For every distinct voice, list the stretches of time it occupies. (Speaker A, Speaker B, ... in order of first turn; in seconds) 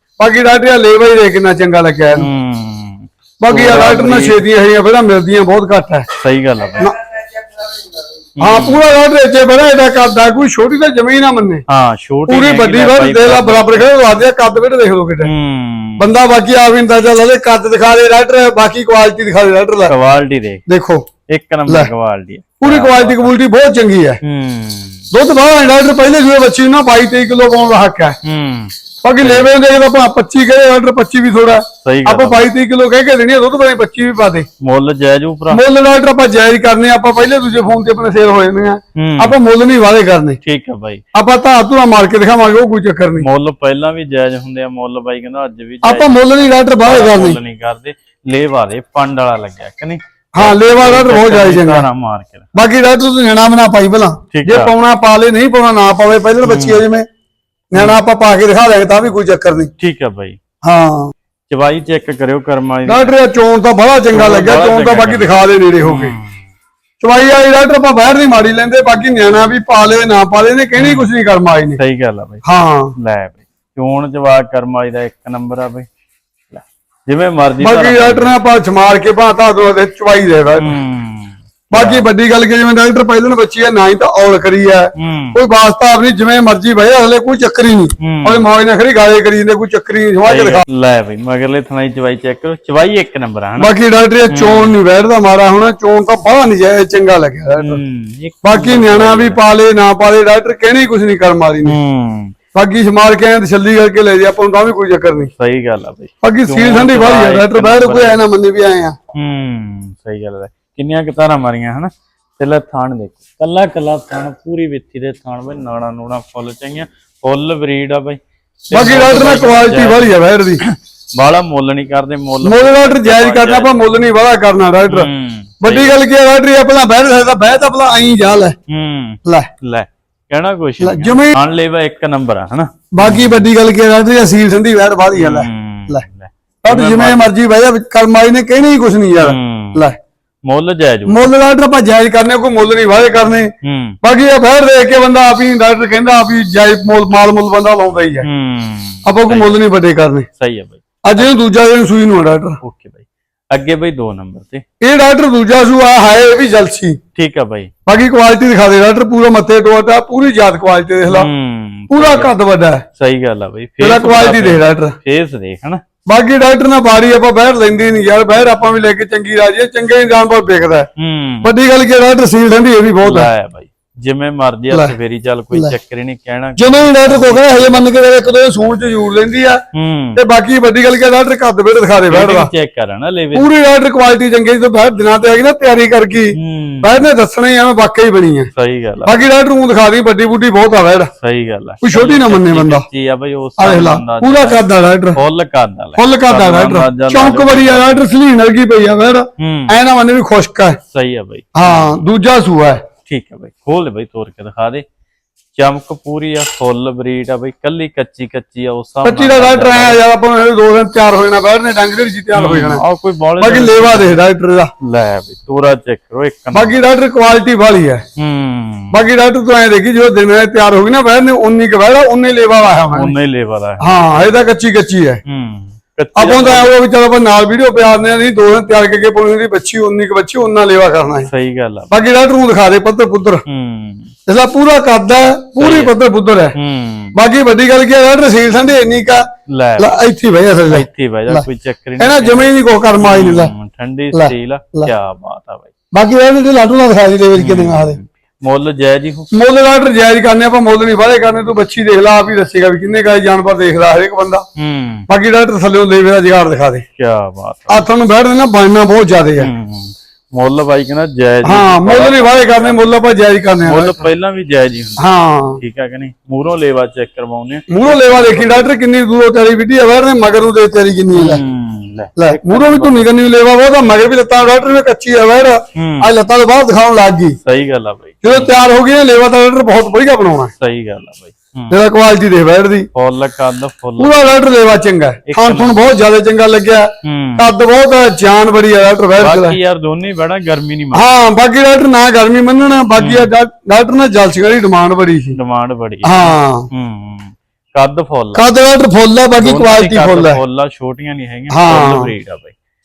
Speaker A: 0.2-2.3, 3.4-6.1, 8.4-11.6, 12.3-15.3, 16.0-19.9, 20.7-21.0, 22.6-24.2, 25.1-28.2, 29.0-34.5, 35.5-40.4, 41.1-43.2, 45.8-47.4, 50.4-51.9, 52.5-57.1, 57.7-59.7, 60.6-61.1, 62.9-66.2, 67.0-71.8, 72.4-72.9, 77.6-80.8, 81.7-90.6, 93.6-97.8, 98.4-101.8, 102.5-105.3, 106.2-109.0, 118.7-120.6, 122.4-125.1, 125.6-128.6, 130.8-131.4, 132.9-136.1, 136.6-139.9, 141.1-143.5, 144.0-148.3, 149.1-150.3, 151.1-152.6, 154.8-157.0, 157.9-161.3, 161.9-162.8, 163.8-164.9, 166.1-170.9, 171.4-173.3, 176.6-179.6, 180.2-182.5, 183.3-188.5, 189.1-191.1, 191.8-192.9, 193.6-195.2, 196.0-200.8, 201.6-202.8, 209.0-212.8, 213.4-214.7, 216.5-218.0, 218.9-223.1, 223.8-225.2, 226.2-231.3, 231.9-233.4, 234.3-236.6, 237.1-239.2, 239.8-241.4, 242.0-243.5, 244.1-244.9, 245.9-248.0, 249.3-254.4, 255.1-256.8, 257.7-259.5, 261.4-264.1, 265.0-265.6, 267.7-271.4, 272.2-277.4, 278.2-280.5, 281.7-282.9, 284.0-289.6, 290.9-295.4, 296.0-296.7, 298.3-300.4, 301.5-302.1
Speaker B: 2.2-4.5, 6.2-6.9, 8.4-8.8, 11.7-13.9, 15.2-16.1, 19.9-20.6, 21.3-23.3, 24.2-25.1, 28.2-29.5, 31.8-32.5, 34.6-35.6, 39.0-39.4, 40.4-41.0, 43.2-52.5, 54.3-54.7, 56.4-56.8, 59.8-60.4, 61.5-63.1, 64.1-66.4, 70.8-71.1, 71.8-72.4, 73.0-75.9, 76.5-78.3, 80.6-82.1, 85.0-85.4, 88.0-88.4, 90.2-93.7, 94.3-94.8, 97.6-99.4, 101.6-102.3, 105.4-108.2, 109.1-123.8, 124.9-126.0, 128.7-133.5, 135.1-137.3, 139.2-139.9, 140.5-141.3, 143.6-144.0, 148.2-149.6, 150.4-151.3, 152.6-154.6, 157.1-157.7, 161.1-162.3, 162.9-165.8, 171.0-171.5, 173.0-177.9, 179.7-180.2, 182.1-183.5, 186.3-187.1, 188.5-189.2, 191.2-194.6, 195.1-198.0, 199.4-199.8, 200.9-202.0, 203.1-204.8, 205.6-210.0, 212.3-214.2, 214.8-216.7, 218.2-219.0, 222.9-224.5, 225.2-226.7, 231.2-232.0, 233.4-234.1, 235.6-235.9, 236.6-237.2, 239.5-240.0, 240.7-245.7, 247.3-249.3, 254.6-255.1, 256.9-257.9, 259.4-262.8, 263.6-268.7, 271.1-273.1, 275.8-276.1, 277.4-278.5, 280.6-281.8, 282.9-284.3, 285.3-285.8, 287.0-287.5, 289.2-291.3, 293.0-293.3, 295.3-298.4, 299.4-302.5